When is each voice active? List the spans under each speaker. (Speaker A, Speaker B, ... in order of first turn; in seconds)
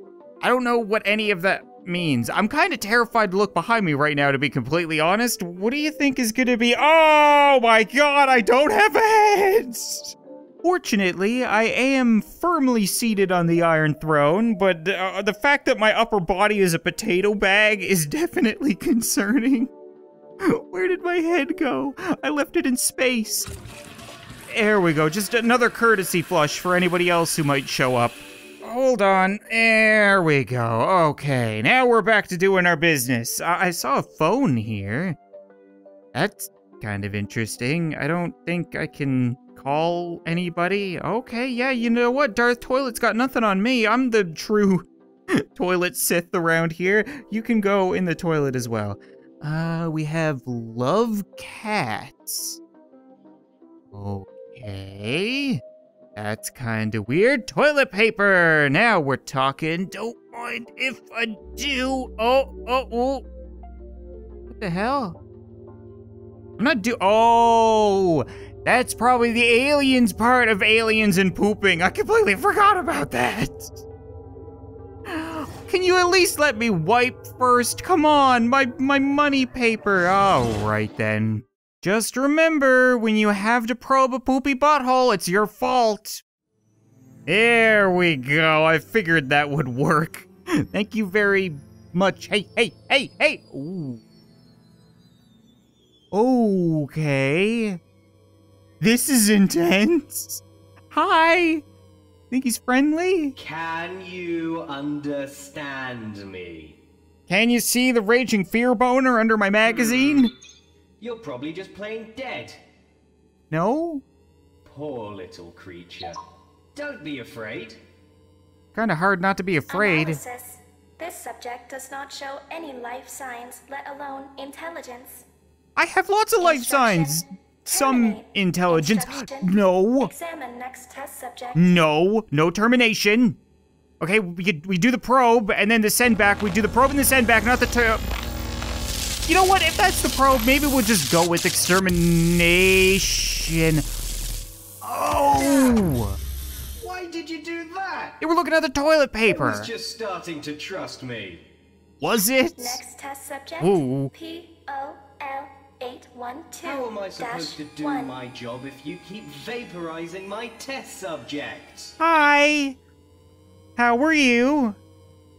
Speaker A: 0.4-19.7, 20.4-23.5, 24.5-35.2, 36.1-52.6, 53.9-55.6, 56.2-63.2, 64.5-65.2, 66.6-73.8, 75.1-86.2, 87.3-94.0, 96.1-97.8, 98.8-101.6, 102.3-103.4, 107.3-110.3, 113.5-114.0, 118.7-120.2, 125.8-130.1, 131.6-133.4, 134.0-138.1, 139.3-143.8, 144.8-146.2, 148.2-149.7, 152.0-152.8, 153.6-154.1, 162.0-162.8, 163.8-164.8
Speaker B: 103.4-106.8, 109.7-110.3, 111.0-112.6, 114.7-116.2, 116.8-117.8, 145.1-145.7, 146.8-148.2, 149.3-151.4, 156.6-162.0
Speaker C: 119.7-125.3, 126.4-131.8, 145.4-145.8, 152.6-158.1